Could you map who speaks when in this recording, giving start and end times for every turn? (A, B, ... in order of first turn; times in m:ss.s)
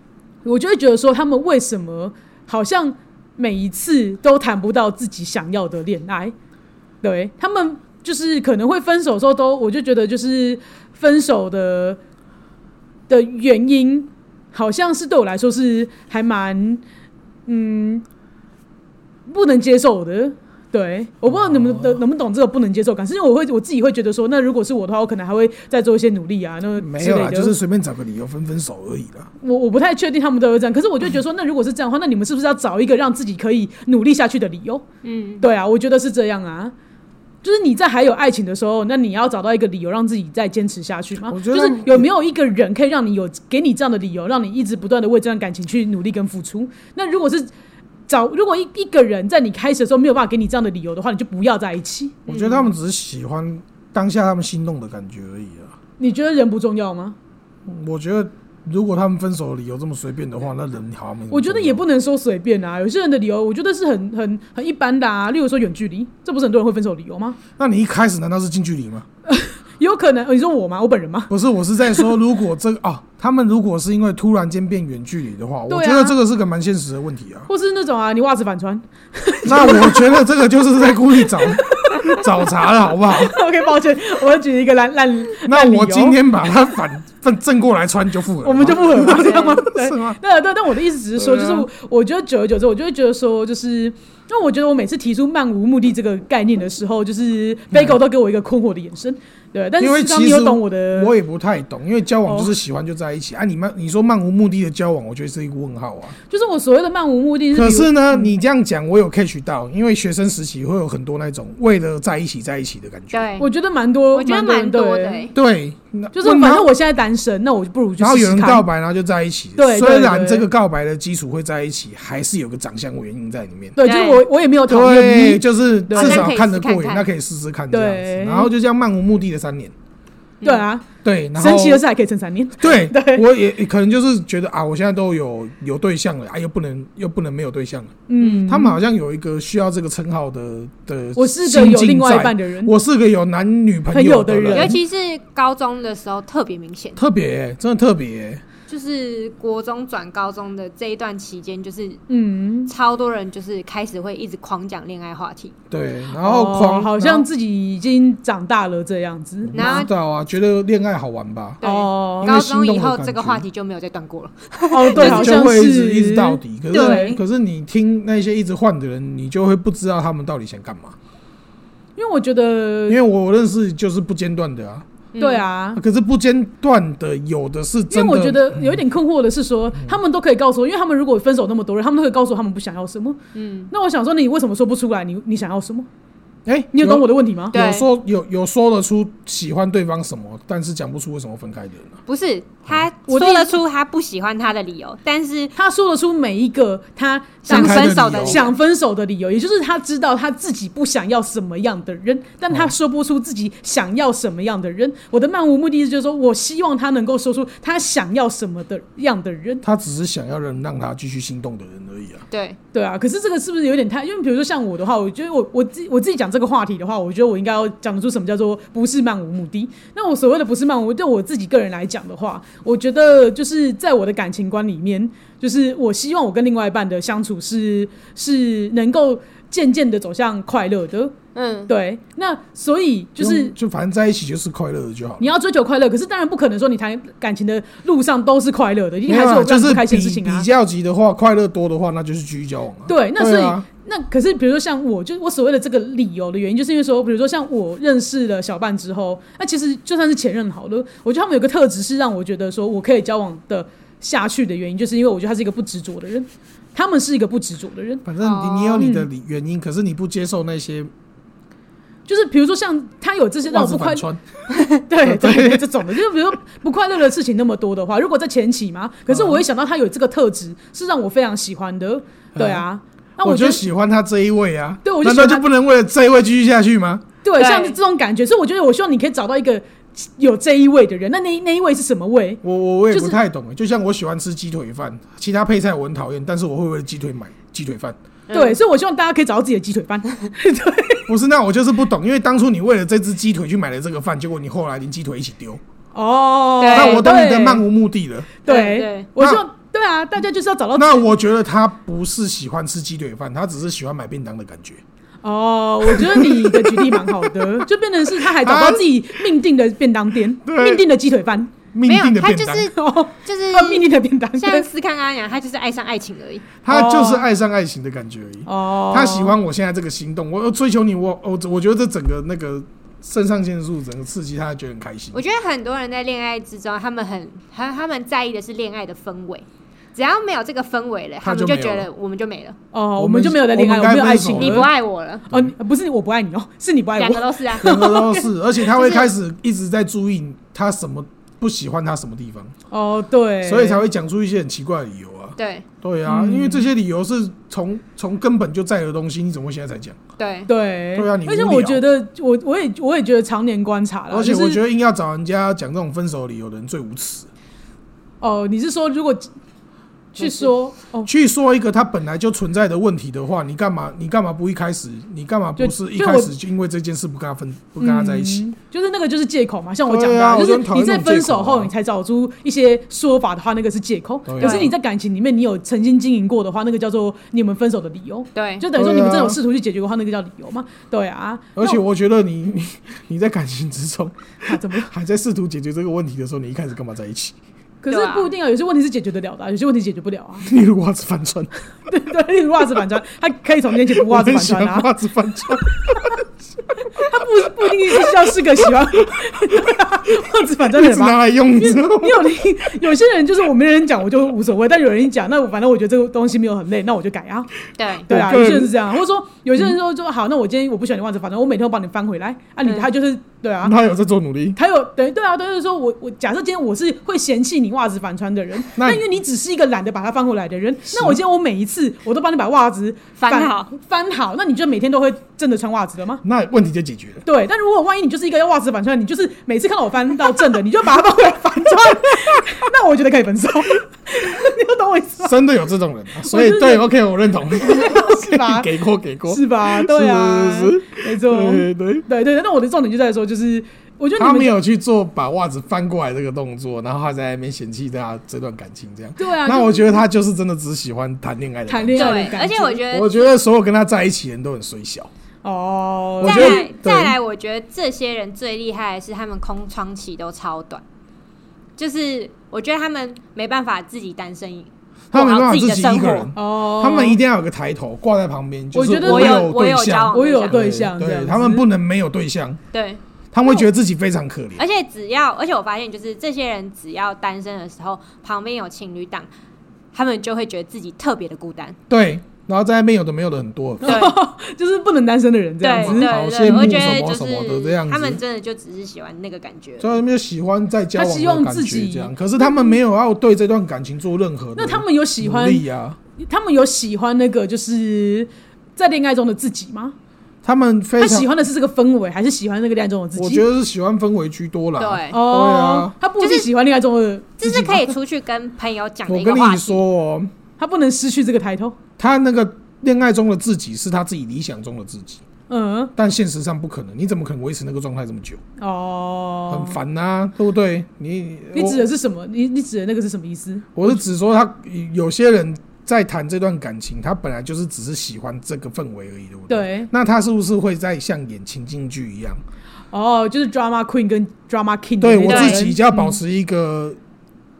0:00.4-0:06.3 A
0:07.0-0:12.0 A
0:13.1-0:16.8 A
0:17.5-0:18.0 A
0:19.3-0:27.5 A
0:21.3-0:22.0 B
0:26.8-0:29.3 B
0:29.4-0:34.8 A
0:35.0-0:35.4 C
0:35.4-0:36.7 A
0:37.4-0:47.5 A
0:41.2-0:42.1 B
0:48.1-0:52.5 A
0:52.3-0:52.6 C
0:52.3-0:55.7 B
0:56.0-0:57.2 A
0:57.6-1:01.8 B
1:01.3-1:07.4 A
1:07.6-1:09.1 B
1:09.3-1:11.3 A
1:11.3-1:17.5 B
1:15.7-1:16.2 A
1:17.5-1:20.2 A
1:19.4-1:23.4 B
1:21.2-1:22.3 A
1:23.0-1:26.2 A
1:25.4-1:30.2 B
1:28.4-1:41.1 A
1:29.0-1:29.6 C
1:31.2-1:31.7 B
1:37.7-1:38.0 B
1:39.8-1:46.2 B
1:42.2-1:42.6 A
1:46.3-1:48.3 A
1:47.5-1:53.3 B
1:53.1-1:53.5 C
1:53.4-1:55.3 A
1:54.1-1:55.3 C
1:55.3-1:56.7 B
1:56.1-1:58.6 A
1:58.0-2:03.8 B
1:59.6-2:00.5 A
2:03.8-2:06.3 A
2:03.8-2:04.2 C
2:04.7-2:09.7 B
2:05.9-2:07.0 C
2:07.7-2:08.5 A
2:10.4-2:10.6 C
2:10.4-2:13.2 A
2:11.0-2:11.8 B
2:12.6-2:24.8 B
2:18.1-2:18.8 A
2:18.2-2:18.5 C
2:21.2-2:22.7 A
2:23.9-2:24.8 A
2:24.5-2:27.0 C
2:27.0-2:28.4 B
2:28.7-2:32.0 C
2:32.1-2:32.7 A
2:32.7-2:35.5 C
2:35.7-2:37.3 B
2:36.2-2:39.8 A
2:39.4-2:41.6 B
2:39.5-2:39.9 C
2:41.6-2:45.4 C
2:41.6-2:42.3 A
2:42.2-2:43.4 B
2:44.7-2:47.2 A
2:44.9-2:51.0 B
2:46.7-2:47.2 C
2:52.0-2:53.0 A
2:52.9-2:54.9 B
2:55.1-2:55.4 C
2:55.2-2:55.8 A
2:55.7-2:58.8 B
2:57.9-3:03.2 A
3:03.3-3:03.7 C
3:03.7-3:05.9 A
3:06.4-3:11.9 B
3:06.7-3:07.6 A
3:07.5-3:07.8 C
3:12.1-3:15.5 C
3:13.1-3:13.6 A
3:15.6-3:29.6 A
3:17.4-3:18.5 C
3:17.5-3:18.4 B
3:29.6-3:32.2 B
3:32.3-3:32.6 C
3:32.7-3:51.2 A
3:51.3-3:51.7 C
3:51.7-3:53.5 A
3:53.2-3:55.3 B
3:55.2-4:00.5 A
3:59.1-4:03.6 B
4:02.9-4:18.0 A
4:18.0-4:20.9 B
4:18.2-4:18.8 C
4:18.8-4:19.1 A
4:22.1-4:24.0 A
4:23.5-4:24.2 B
4:24.8-4:33.6 A
4:25.0-4:25.9 B
4:29.1-4:29.4 B
4:32.3-4:32.6 B
4:33.2-4:37.1 B
4:34.8-4:35.5 A
4:37.2-4:43.2 A
4:37.4-4:37.8 C
4:42.4-4:48.0 B
4:48.3-4:48.6 C
4:48.3-4:51.1 A
4:51.1-4:55.6 B
4:55.9-4:57.6 A
4:56.6-4:57.1 C
4:56.7-4:58.4 B
4:58.4-5:01.1 A
4:58.4-4:59.1 C
4:59.2-4:59.4 B
5:00.7-5:04.8 B
5:05.2-5:11.5 A
5:05.9-5:07.6 B
5:08.2-5:09.1 B
5:10.4-5:10.8 B
5:11.7-5:12.7 B
5:11.8-5:16.5 C
5:12.7-5:14.7 A
5:16.6-5:25.2 B
5:16.7-5:17.3 A
5:18.4-5:19.4 A
5:25.1-5:32.6 C
5:31.2-5:31.9 B
5:32.7-5:34.7 A
5:33.0-5:34.7 B
5:34.3-5:35.2 C
5:35.3-5:38.3 A
5:37.0-5:37.9 C
5:37.6-5:42.5 B
5:38.7-5:39.1 C
5:42.7-5:43.8 A
5:43.4-5:50.0 B
5:45.4-5:45.6 C
5:46.0-5:46.7 A
5:50.2-5:50.5 C
5:50.5-5:54.6 A
5:50.9-5:51.8 B
5:54.1-5:57.3 B
5:58.2-5:59.3 A
6:00.2-6:01.1 A
6:00.2-6:00.4 C
6:01.0-6:08.4 B
6:05.6-6:06.3 A
6:07.8-6:21.8 A
6:09.8-6:11.7 B
6:14.3-6:14.7 B
6:14.4-6:14.7 C
6:18.3-6:18.6 C
6:18.7-6:19.4 B
6:21.6-6:27.4 B
6:24.4-6:24.9 A
6:27.8-6:30.5 A
6:27.9-6:28.3 C
6:30.4-6:31.5 B
6:31.9-6:34.9 A
6:33.9-6:36.2 B
6:36.9-6:47.5 A
6:40.7-6:42.2 B
6:47.8-6:48.1 C
6:48.1-6:53.8 A
6:48.1-6:48.7 B
6:52.6-6:52.9 C
6:53.6-6:54.6 B
6:54.6-7:06.2 A
6:58.7-6:59.0 B
7:00.9-7:01.2 B
7:03.2-7:03.7 C
7:06.2-7:07.2 B
7:07.2-7:15.4 A
7:15.2-7:22.0 B
7:16.2-7:16.9 A
7:17.6-7:18.7 A
7:19.3-7:24.6 A
7:24.2-7:35.1 B
7:29.2-7:30.0 A
7:31.7-7:32.8 A
7:32.0-7:33.3 C
7:35.4-7:36.7 A
7:36.2-7:37.2 B
7:36.2-7:40.8 C
7:41.8-7:46.3 C
7:45.1-7:52.6 B
7:46.3-7:47.2 A
7:48.7-7:49.5 A
7:49.0-7:50.8 C
7:50.1-7:51.6 A
7:52.7-7:53.7 C
7:53.3-7:54.6 B
7:54.6-7:59.3 C
7:59.9-8:01.8 C
8:01.9-8:04.1 B
8:03.8-8:06.7 A
8:03.8-8:04.1 C
8:05.6-8:10.0 C
8:05.8-8:08.2 B
8:09.8-8:16.0 B
8:11.0-8:12.8 A
8:14.6-8:15.6 A
8:16.2-8:20.0 A
8:20.4-8:21.3 B
8:21.0-8:23.4 A
8:23.2-8:25.9 B
8:24.8-8:25.2 C
8:25.1-8:27.8 A
8:26.2-8:26.5 C
8:27.4-8:29.8 C
8:29.0-8:30.3 B
8:30.6-8:31.8 A
8:32.0-8:35.2 B
8:35.5-8:35.9 A
8:36.0-8:38.4 B
8:38.6-8:39.8 A
8:39.5-8:41.9 B
8:41.5-8:44.0 A
8:43.7-8:52.4 B
8:49.5-8:49.9 A
8:52.9-8:56.2 A
8:55.0-8:57.0 B
8:55.2-8:55.6 C